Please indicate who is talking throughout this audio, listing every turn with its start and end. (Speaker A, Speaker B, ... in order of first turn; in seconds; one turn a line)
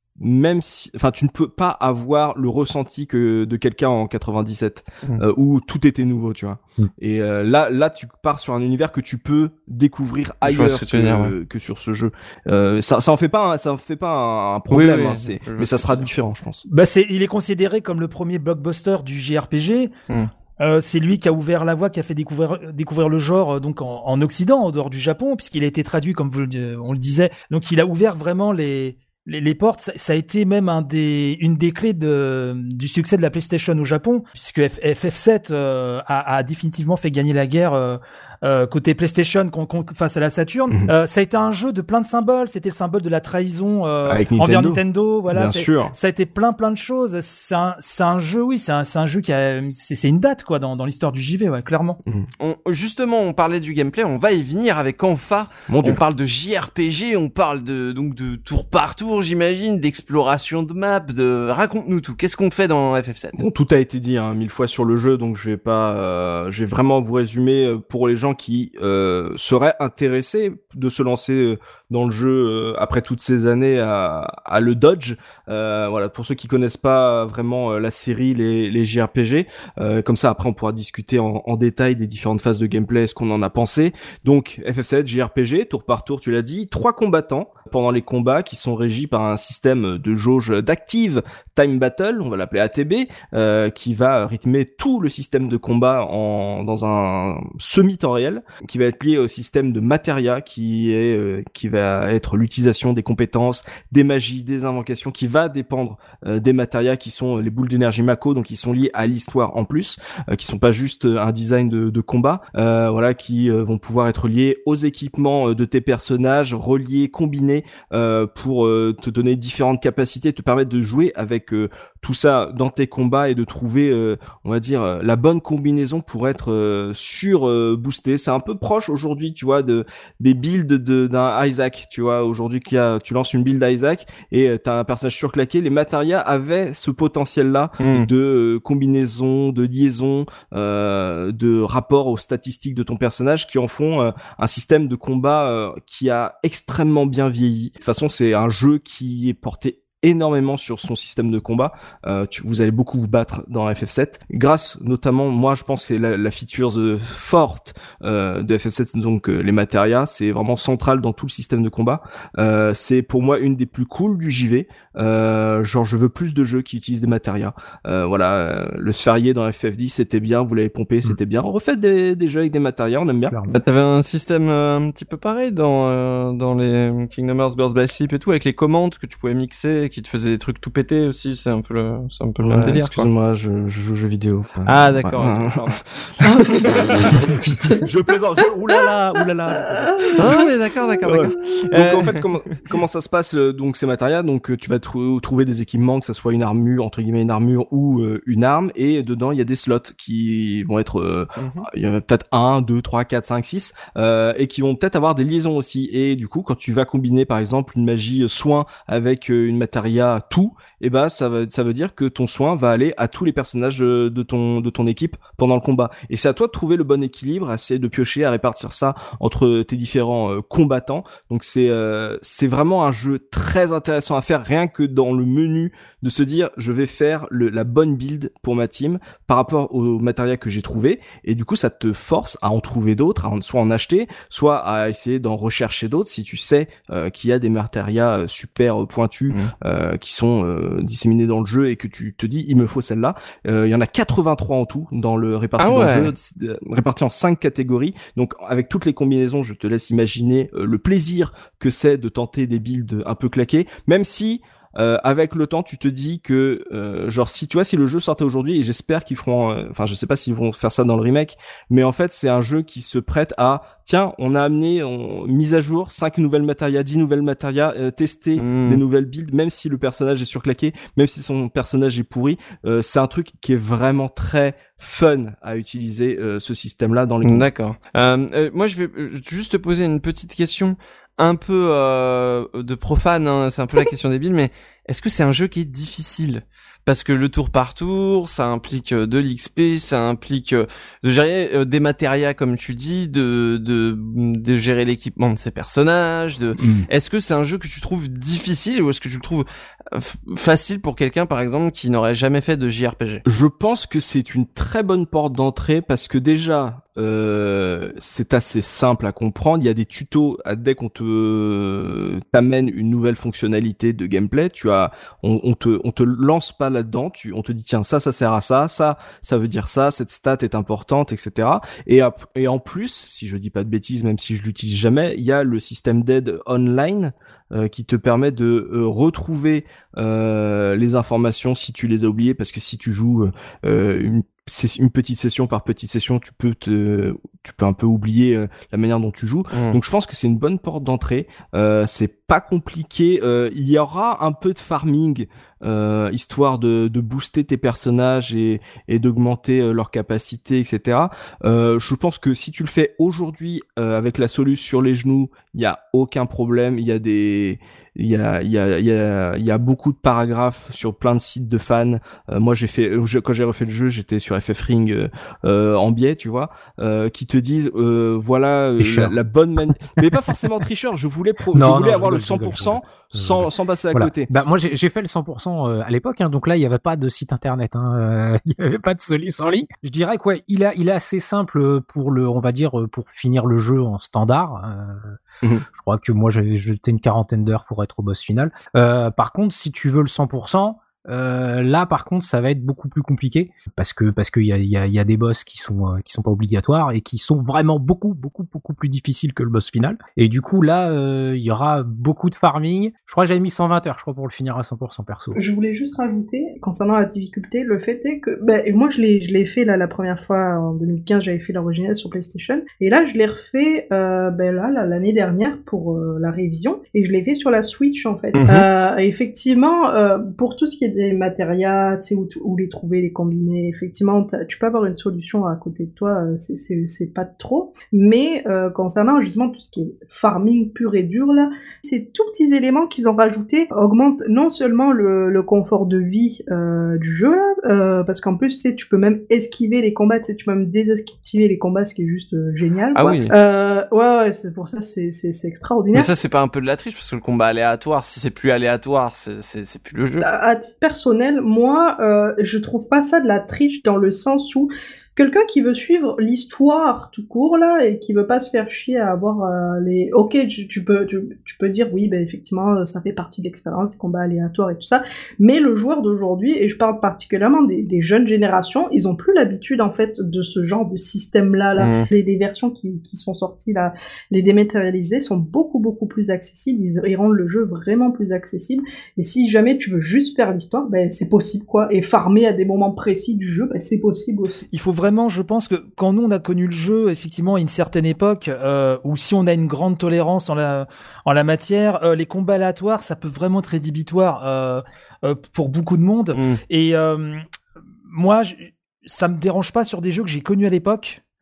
Speaker A: 0.2-16.6
Speaker B: 10.4-11.3
Speaker B: 14.7-16.1
Speaker C: 16.7-19.9
Speaker C: 20.6-52.0
Speaker A: 44.1-44.8
Speaker A: 45.3-45.9
Speaker B: 52.4-63.4
Speaker A: 55.7-56.0
Speaker A: 63.4-173.3
Speaker B: 137.8-138.1
Speaker D: 173.3-173.6
Speaker B: 173.5-183.1
Speaker A: 182.4-190.5
Speaker B: 184.7-185.5
Speaker E: 186.3-187.8
Speaker E: 189.5-191.5
Speaker B: 190.2-192.2
Speaker A: 191.1-277.5
Speaker B: 201.4-201.7
Speaker B: 245.6-246.1
Speaker B: 268.4-268.8
Speaker B: 277.2-303.2
Speaker A: 296.6-296.9
Speaker A: 303.2-374.3
Speaker B: 339.5-339.8
Speaker D: 368.8-369.1
Speaker D: 369.7-370.4
Speaker D: 371.5-385.2
Speaker D: 385.7-405.4
Speaker E: 405.3-446.1
Speaker B: 418.4-418.6
Speaker B: 442.9-443.3
Speaker B: 445.9-450.3
Speaker E: 450.2-484.6
Speaker B: 471.8-472.1
Speaker C: 484.7-497.4
Speaker B: 496.3-496.6
Speaker C: 498.1-501.2